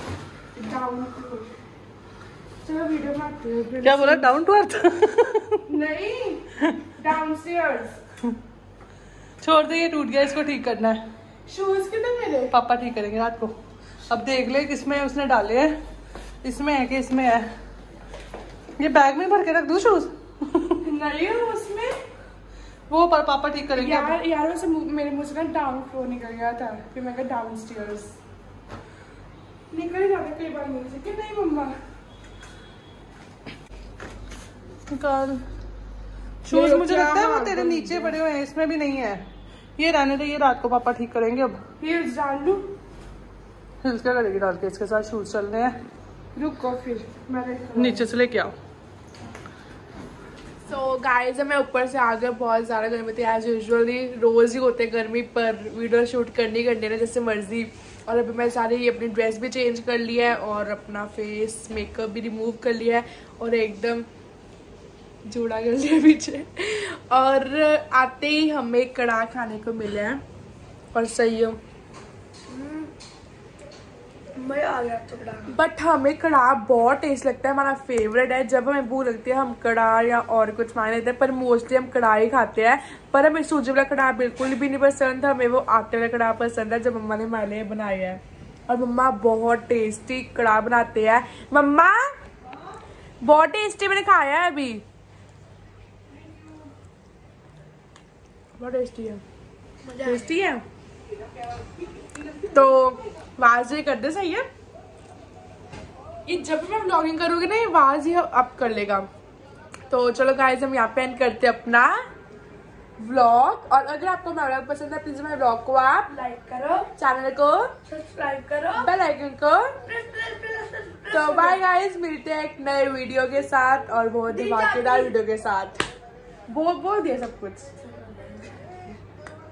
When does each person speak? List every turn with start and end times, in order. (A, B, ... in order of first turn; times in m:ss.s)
0:00.6-0:01.5 A
0:02.6-0:04.3 A
0:03.8-0:05.6 B
0:05.7-0:08.0 A
0:09.4-0:11.0 B
0:11.5-0:12.5 A
0:12.5-0:13.5 B
0:14.1-0:15.7 B
0:16.4-0:17.5 B
0:18.8-0:20.8 B
0:20.8-0:22.0 A
0:22.9-0:24.2 B
0:23.7-0:28.2 A
0:29.7-0:31.8 A
0:34.9-0:35.4 B
0:36.4-0:41.6 B
0:36.5-0:38.2 A
0:41.8-0:42.8 A
0:43.8-0:45.8 B
0:46.4-0:48.1 A
0:47.8-0:48.6 B
0:50.6-1:04.1 A
1:05.2-1:10.2 A
1:10.9-1:11.6 A
1:12.5-1:12.9 C
1:14.4-1:15.5 C
1:15.5-1:32.1 A
1:33.2-1:34.8 A
1:36.2-1:36.6 B
1:38.6-1:39.2 A
1:39.8-1:40.4 C
1:40.0-1:40.6 A
1:41.3-1:42.5 B
1:42.5-1:44.5 A
1:46.3-1:49.1 A
1:49.9-1:52.0 A
1:53.0-1:56.1 A
1:56.1-1:56.9 C
1:57.0-1:57.7 A
1:57.8-1:58.9 C
1:58.8-1:59.8 A
1:59.8-2:01.6 C
2:01.1-2:05.8 A
2:04.3-2:05.1 C
2:06.5-2:07.7 A
2:07.8-2:08.8 C